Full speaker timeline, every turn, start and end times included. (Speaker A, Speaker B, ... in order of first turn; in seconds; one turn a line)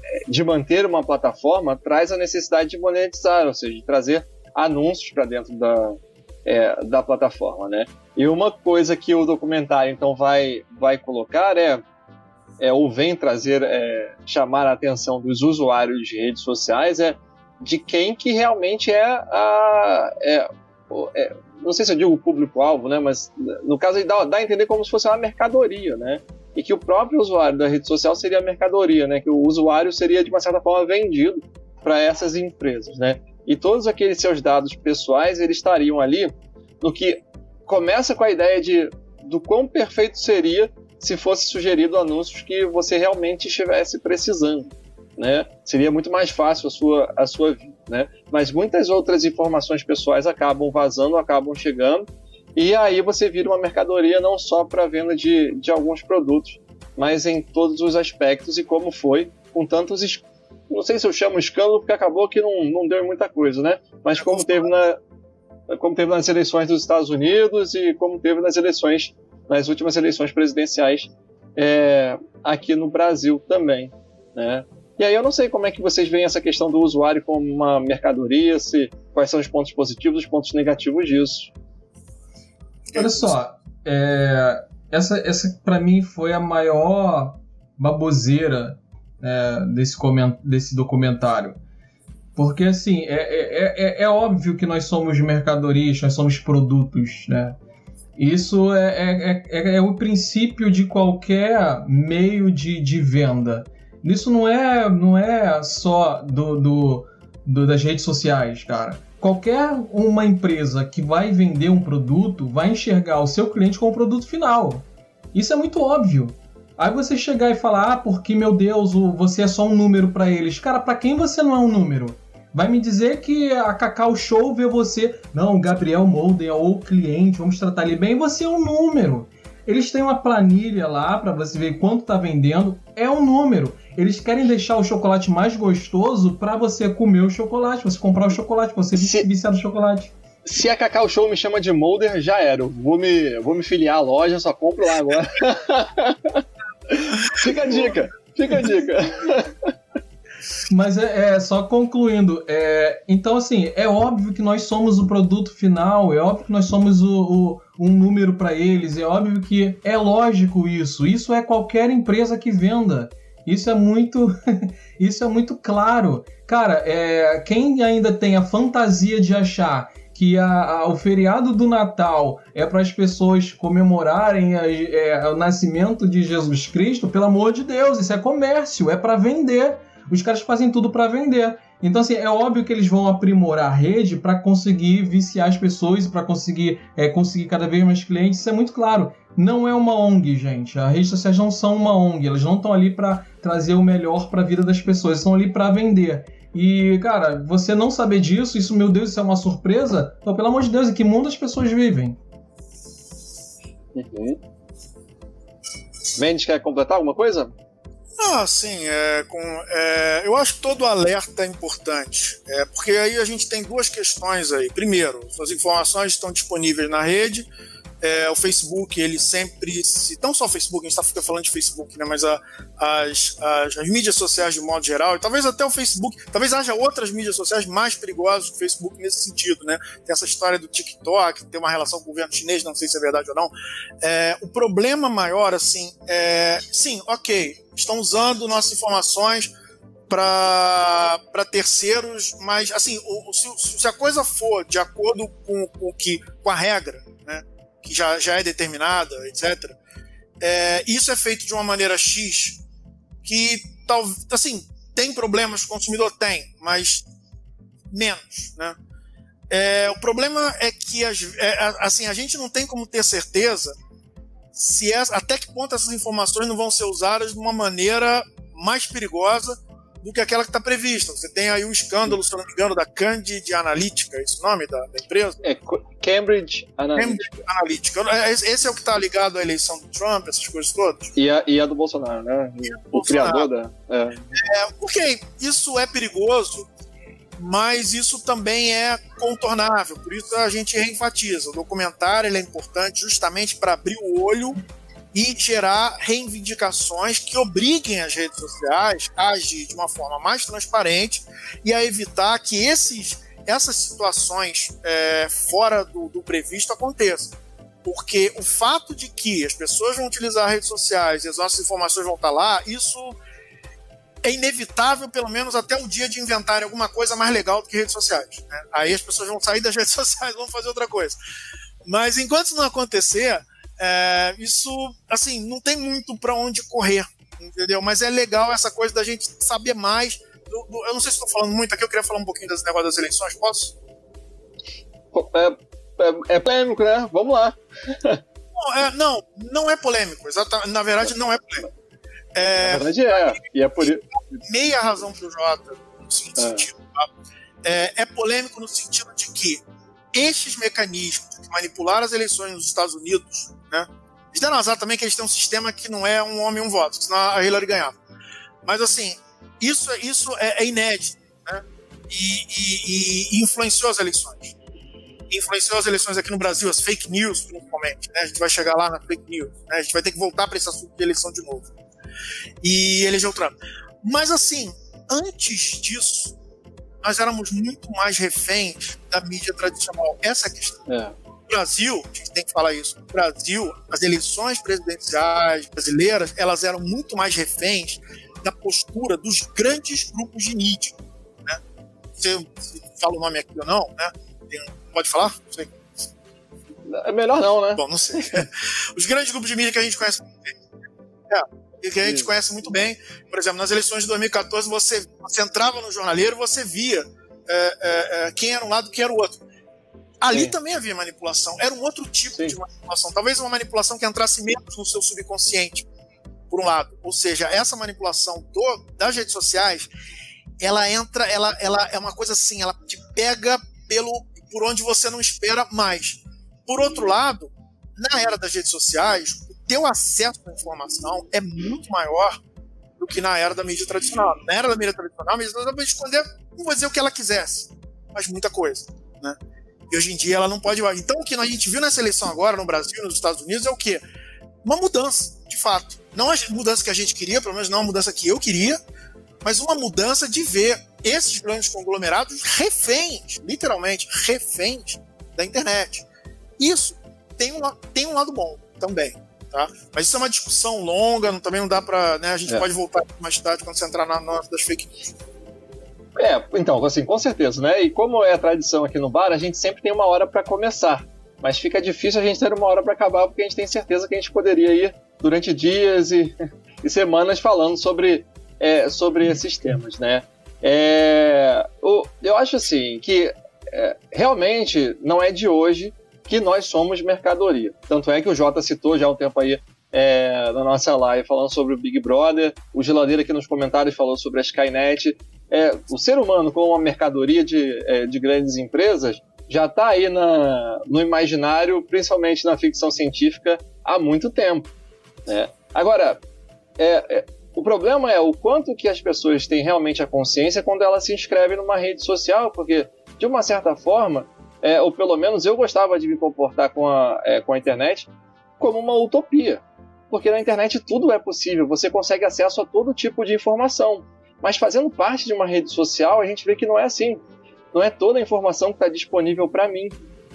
Speaker A: 0.1-11.8
Speaker A: 12.6-65.0
Speaker B: 64.2-64.7
Speaker A: 65.7-81.5
Speaker B: 82.9-83.3
Speaker C: 83.0-91.6
Speaker C: 92.4-97.6
Speaker C: 98.2-140.1
Speaker A: 139.0-139.3
Speaker A: 140.4-149.7
Speaker C: 150.7-202.2
Speaker A: 203.9-204.4
Speaker A: 206.2-207.5
Speaker B: 208.2-217.5
Speaker B: 218.0-239.5
Speaker B: 240.1-249.8
Speaker B: 250.4-252.6
Speaker B: 253.2-257.1
Speaker B: 257.9-258.8
Speaker B: 259.5-263.8
Speaker B: 264.5-275.4
Speaker A: 275.4-277.3
Speaker B: 277.0-281.1
Speaker A: 281.2-284.3
Speaker B: 282.7-283.5
Speaker B: 284.3-286.7
Speaker B: 287.4-294.6
Speaker B: 295.1-313.2
Speaker B: 314.2-321.2
Speaker B: 321.9-333.8
Speaker A: 335.1-338.2
Speaker B: 338.6-341.7
Speaker B: 342.4-347.1
Speaker A: 342.6-344.2
Speaker A: 346.4-346.7
Speaker B: 347.6-358.0
Speaker B: 358.6-364.6
Speaker B: 365.3-371.7
Speaker B: 372.6-376.4
Speaker B: 377.0-380.8
Speaker A: 380.9-381.1
Speaker B: 381.5-391.6
Speaker B: 392.2-396.1
Speaker A: 396.9-398.4
Speaker B: 397.8-400.6
Speaker B: 401.3-409.4
Speaker B: 410.2-415.9
Speaker B: 416.5-419.9
Speaker B: 420.6-432.4
Speaker B: 433.0-439.4
Speaker B: 439.9-444.0
Speaker B: 444.6-448.8
Speaker B: 449.4-456.1
Speaker B: 456.6-465.2
Speaker A: 466.2-504.7
Speaker A: 505.3-506.2
Speaker A: 506.8-518.1
Speaker A: 518.6-530.0